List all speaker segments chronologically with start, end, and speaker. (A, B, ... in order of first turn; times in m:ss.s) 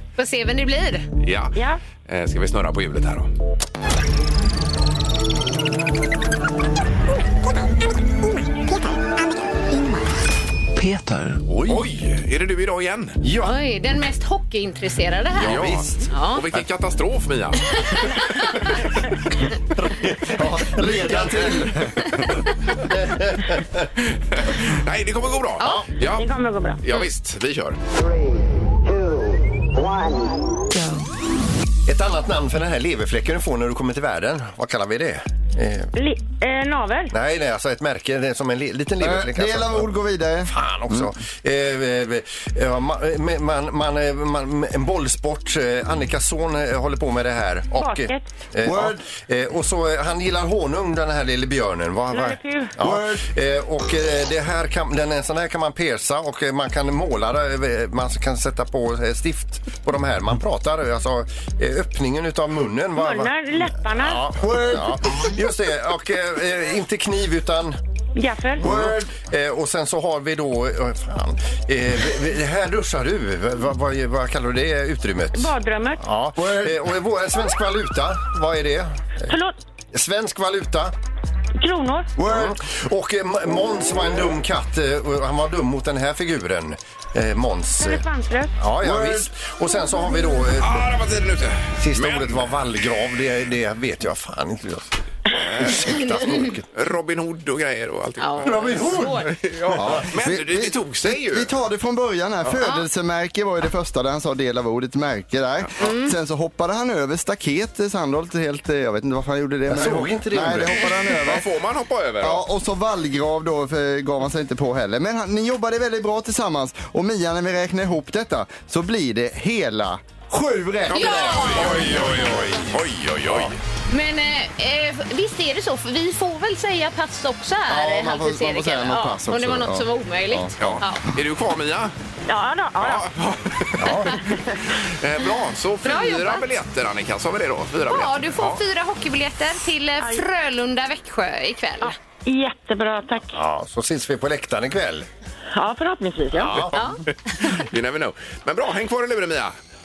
0:00.2-0:01.1 A
0:01.2-0:03.3 B
0:01.6-0:01.8 C
0:10.8-0:11.9 D
0:11.6-0:13.2 B
0:13.2-0:13.6 D
0:13.4-0:16.4 A
0:15.4-0:16.6 D
0:15.4-0:18.8 B
0:17.9-0:18.4 A
0:19.8-0:21.7 D
0:20.2-0:22.4 E
0:22.8-0:23.9 D
0:24.1-0:26.3 B
0:25.6-0:25.8 A
0:25.6-0:25.9 D
0:26.1-0:26.8 C
0:26.8-0:27.8 B
0:31.9-0:35.9 D
0:36.0-0:37.1 C
0:37.1-1:07.8 D
0:39.0-0:41.1 E
0:47.8-0:48.3 C
0:48.6-0:49.0 E
0:52.1-0:52.8 C
0:52.8-0:53.3 E
1:03.0-1:04.3 C
1:04.4-1:05.0 E
1:08.2-1:08.6 C
1:08.6-1:19.3 D
1:08.6-1:09.0 E
1:15.3-1:16.0 C
1:16.4-1:16.8 E
1:19.2-1:19.6 C
1:19.9-1:20.9 D
1:21.6-1:22.1 C
1:22.2-1:22.6 E
1:22.2-1:28.0 D
1:27.8-1:28.6 C
1:28.6-1:30.9 D
1:28.8-1:29.3 E
1:30.6-1:32.5 B
1:31.8-1:35.0 D
1:35.4-1:35.9 B
1:35.5-1:36.7 D
1:36.7-1:41.5 B
1:38.2-1:39.3 A
1:38.4-1:40.1 D
1:39.8-1:51.5 E
1:45.8-1:46.1 A
1:49.7-1:51.1 D
1:51.2-1:52.4 B
1:52.2-2:02.1 E
2:00.9-2:03.6 B
2:00.9-2:02.1 A
2:01.6-2:02.8 D
2:03.3-2:03.5 D
2:03.9-2:11.0 A
2:07.7-2:10.8 E
2:10.6-2:11.9 B
2:12.3-2:13.0 C
2:12.8-2:18.6 B
2:13.8-2:14.2 D
2:15.8-2:16.4 A
2:17.9-2:22.0 A
2:21.8-2:23.4 C
2:23.3-2:25.1 D
2:25.5-2:26.7 C
2:26.3-2:26.7 D
2:26.5-2:29.6 B
2:26.7-2:27.0 A